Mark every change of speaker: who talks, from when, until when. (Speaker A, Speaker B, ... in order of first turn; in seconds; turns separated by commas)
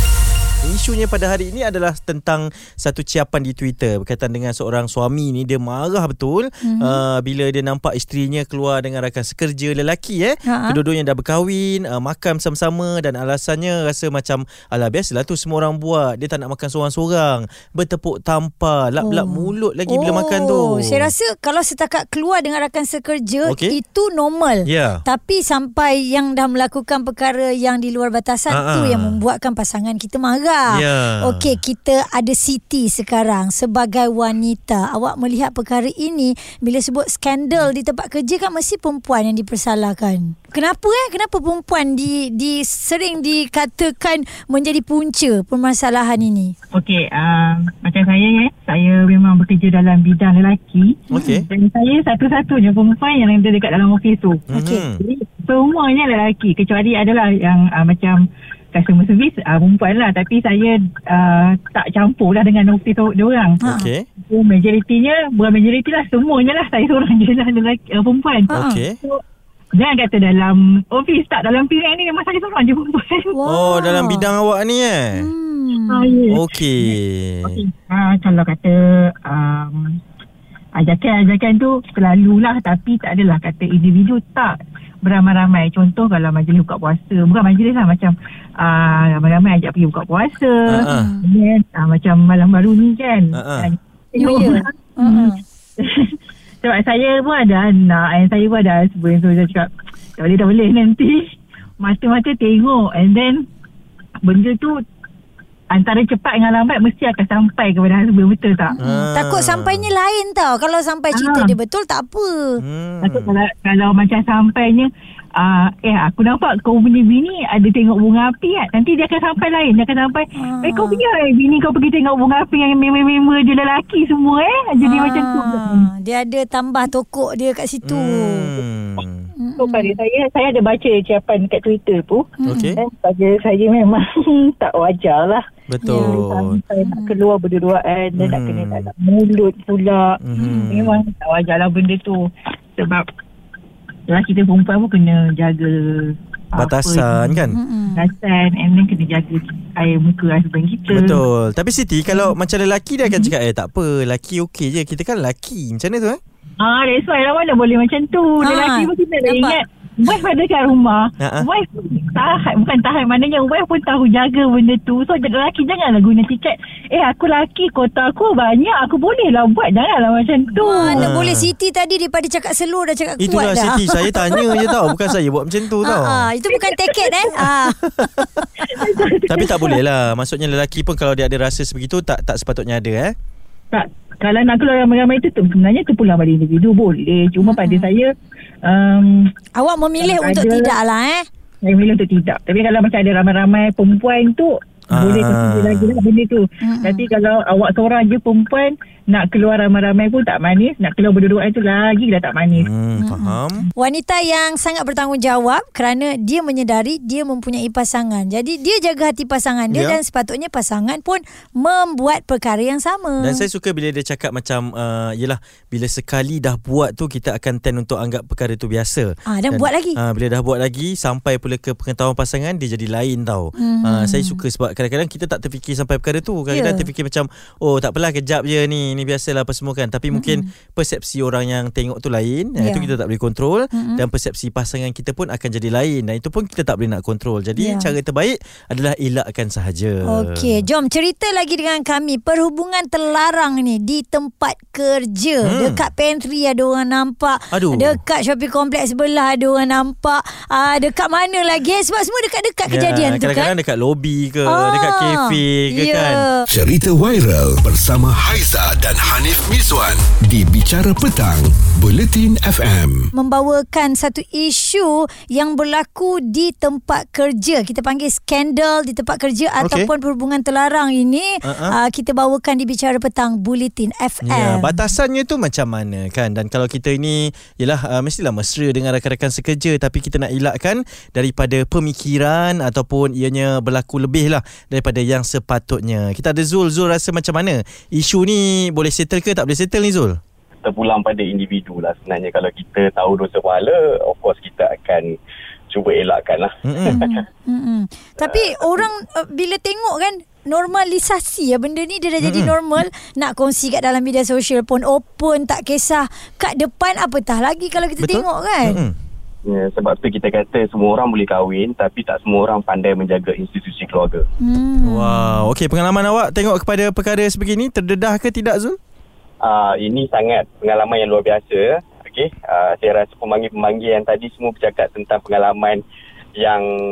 Speaker A: 0.6-21.1, Speaker B: 6.6-7.0, Speaker B: 10.4-10.8, Speaker B: 19.0-46.5, Speaker A: 23.4-23.8, Speaker A: 24.6-25.0, Speaker A: 28.5-29.2, Speaker A: 30.7-31.5, Speaker C: 46.7-54.4, Speaker B: 51.1-51.4, Speaker A: 51.1-51.5, Speaker A: 54.5-55.0, Speaker B: 54.5-54.8, Speaker C: 55.0-63.6, Speaker B: 63.6-63.9, Speaker A: 63.6-64.1, Speaker C: 64.2-68.5, Speaker B: 68.5-68.8, Speaker A: 68.5-69.0, Speaker C: 69.7-73.3, Speaker B: 73.3-74.3, Speaker A: 73.4-75.3, Speaker B: 75.2-76.2, Speaker C: 75.9-76.4, Speaker A: 76.3-77.6, Speaker C: 77.4-80.0, Speaker C: 80.7-103.5, Speaker A: 90.7-91.1, Speaker B: 90.8-91.2, Speaker A: 93.3-93.7, Speaker B: 94.2-95.4, Speaker C: 104.2-104.8, Speaker C: 105.7-108.7, Speaker B: 108.7-112.6, Speaker A: 108.8-109.9, Speaker C: 111.1-111.5, Speaker A: 112.6-113.3, Speaker C: 113.0-125.9, Speaker B: 120.4-121.0, Speaker B: 124.8-128.6, Speaker A: 127.8-129.3, Speaker B: 129.3-130.0, Speaker C: 129.6-135.4, Speaker B: 132.4-132.8, Speaker A: 132.4-132.8, Speaker A: 135.7-136.6, Speaker B: 135.8-136.2, Speaker C: 136.0-143.1, Speaker B: 136.8-137.2, Speaker A: 138.2-138.9, Speaker A: 140.2-141.0, Speaker B: 140.3-140.7, Speaker C: 144.1-151.2, Speaker A: 146.5-147.6, Speaker B: 147.5-148.1, Speaker A: 150.9-156.2, Speaker C: 156.6-171.0, Speaker B: 158.4-159.6, Speaker A: 161.2-161.4, Speaker B: 170.6-174.7, Speaker A: 170.8-171.5, Speaker A: 173.2-176.3, Speaker B: 175.8-178.2, Speaker A: 177.4-178.4, Speaker C: 178.6-179.7, Speaker A: 179.2-183.1, Speaker C: 183.7-189.3, Speaker B: 187.4-187.9, Speaker B: 189.5-191.2, Speaker C: 190.0-190.7, Speaker C: 191.6-202.7, Speaker A: 194.9-196.0, Speaker B: 196.6-197.0, Speaker A: 202.5-203.7, Speaker B: 203.0-213.4, Speaker A: 209.7-210.0, Speaker A: 213.2-240.7, Speaker B: 219.3-220.0, Speaker B: 223.6-224.4, Speaker B: 226.5-226.9, Speaker B: 230.1-230.5, Speaker B: 232.6-232.9, Speaker B: 233.7-234.0, Speaker B: 237.6-237.9, Speaker B: 240.0-253.5, Speaker A: 245.4-245.8, Speaker A: 247.5-248.0, Speaker A: 252.7-256.3, Speaker B: 254.5-256.5, Speaker D: 256.5-263.1, Speaker B: 263.1-274.7, Speaker A: 269.6-269.9, Speaker A: 271.4-271.8, Speaker A: 274.2-290.2, Speaker E: 290.6-295.1, Speaker E: 295.7-297.2, Speaker A: 296.6-297.0, Speaker B: 296.9-308.8, Speaker E: 298.2-298.8, Speaker A: 302.2-302.5, Speaker A: 308.0-308.9, Speaker E: 309.4-314.2, Speaker B: 314.4-315.5, Speaker A: 314.8-318.8, Speaker E: 319.4-325.8, Speaker E: 326.4-326.7